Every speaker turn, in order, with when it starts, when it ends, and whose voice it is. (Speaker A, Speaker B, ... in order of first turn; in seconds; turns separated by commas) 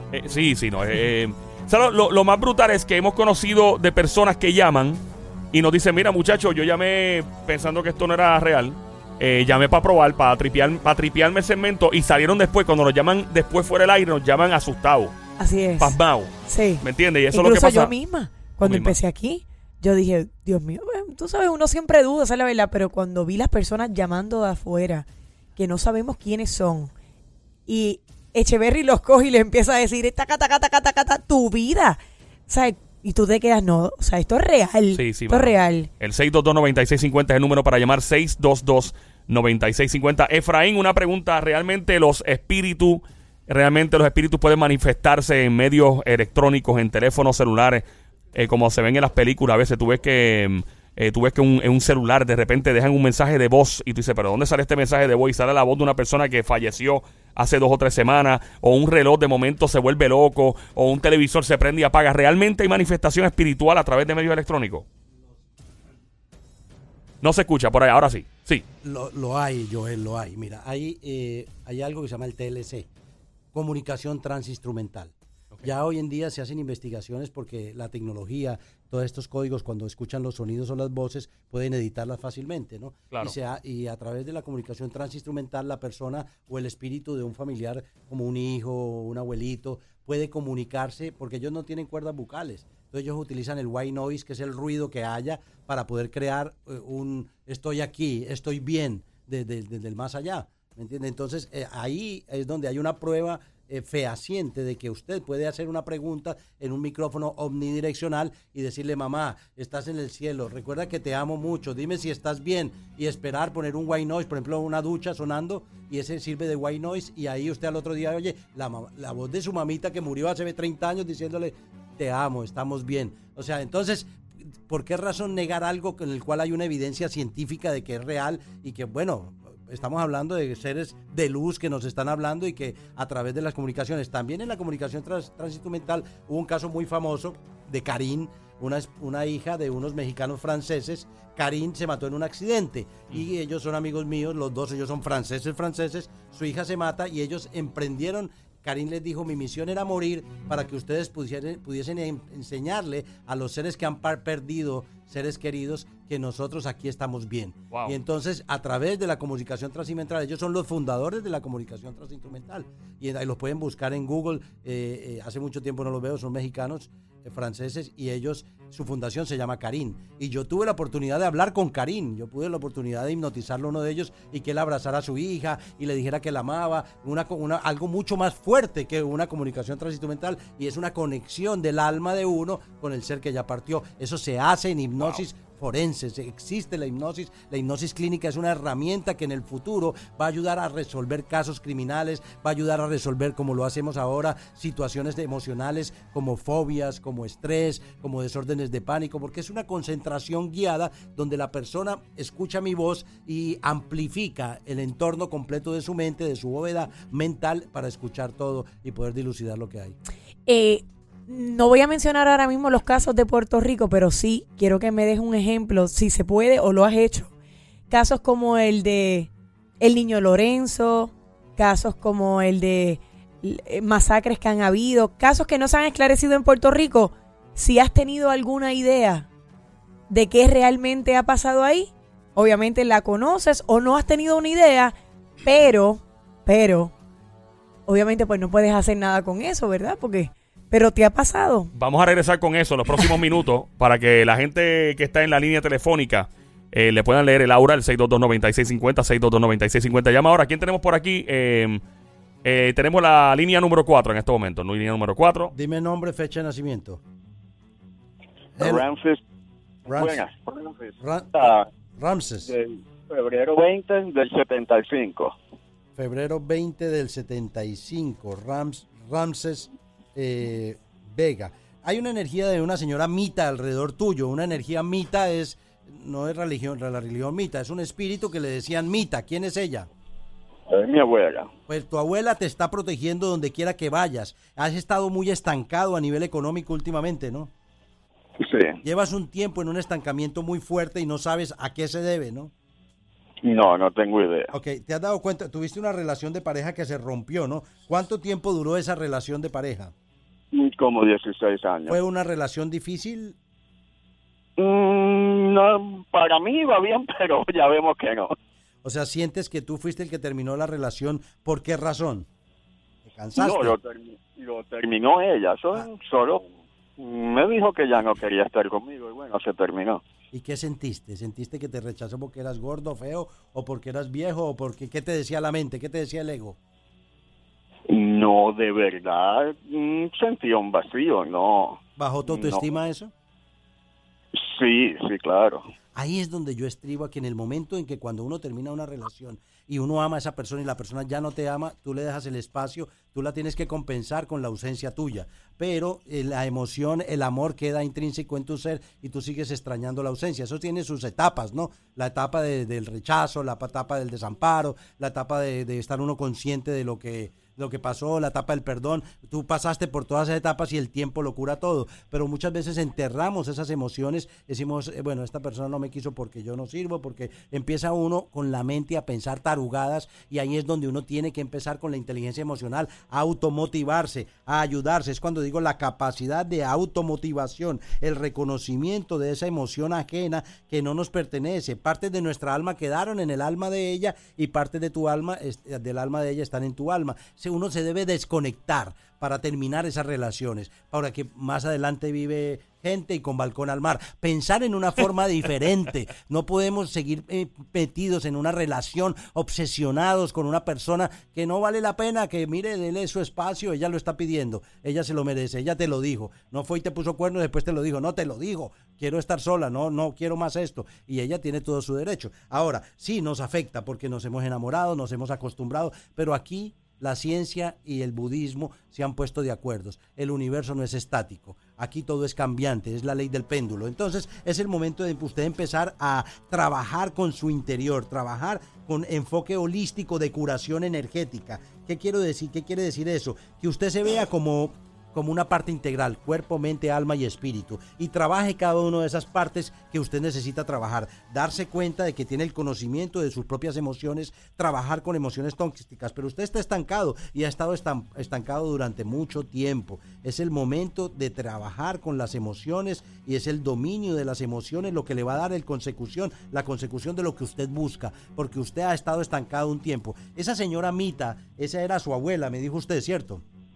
Speaker A: 0.1-5.0, Speaker A: 5.5-15.1, Speaker B: 15.4-25.0, Speaker A: 15.8-17.9, Speaker A: 18.6-18.9, Speaker B: 25.6-26.9, Speaker B: 27.7-35.9, Speaker A: 34.9-47.8, Speaker A: 48.3-64.8, Speaker A: 67.2-68.6, Speaker C: 68.8-72.9, Speaker C: 73.5-124.1, Speaker C: 124.7-210.0, Speaker B: 210.4-217.3, Speaker B: 217.9-219.3, Speaker B: 219.8-229.3, Speaker B: 230.1-236.9, Speaker B: 237.9-241.7, Speaker A: 241.7-251.8, Speaker A: 252.4-255.5, Speaker C: 255.5-257.0, Speaker D: 258.6-259.2, Speaker C: 258.6-258.8, Speaker C: 259.9-260.2, Speaker D: 259.9-261.7, Speaker C: 261.0-262.5, Speaker D: 262.4-265.4, Speaker C: 265.9-279.9, Speaker D: 280.7-281.5, Speaker C: 281.7-287.5, Speaker D: 288.4-288.8, Speaker C: 288.8-292.5, Speaker D: 293.4-294.5, Speaker C: 294.5-299.9, Speaker D: 300.5-302.0, Speaker C: 301.9-303.4, Speaker D: 304.6-308.3, Speaker C: 308.8-312.3, Speaker C: 313.0-313.7, Speaker D: 313.4-316.4, Speaker D: 317.0-320.0, Speaker C: 320.3-326.6, Speaker D: 327.9-332.6, Speaker C: 332.0-333.1, Speaker D: 334.3-335.7, Speaker C: 335.9-463.4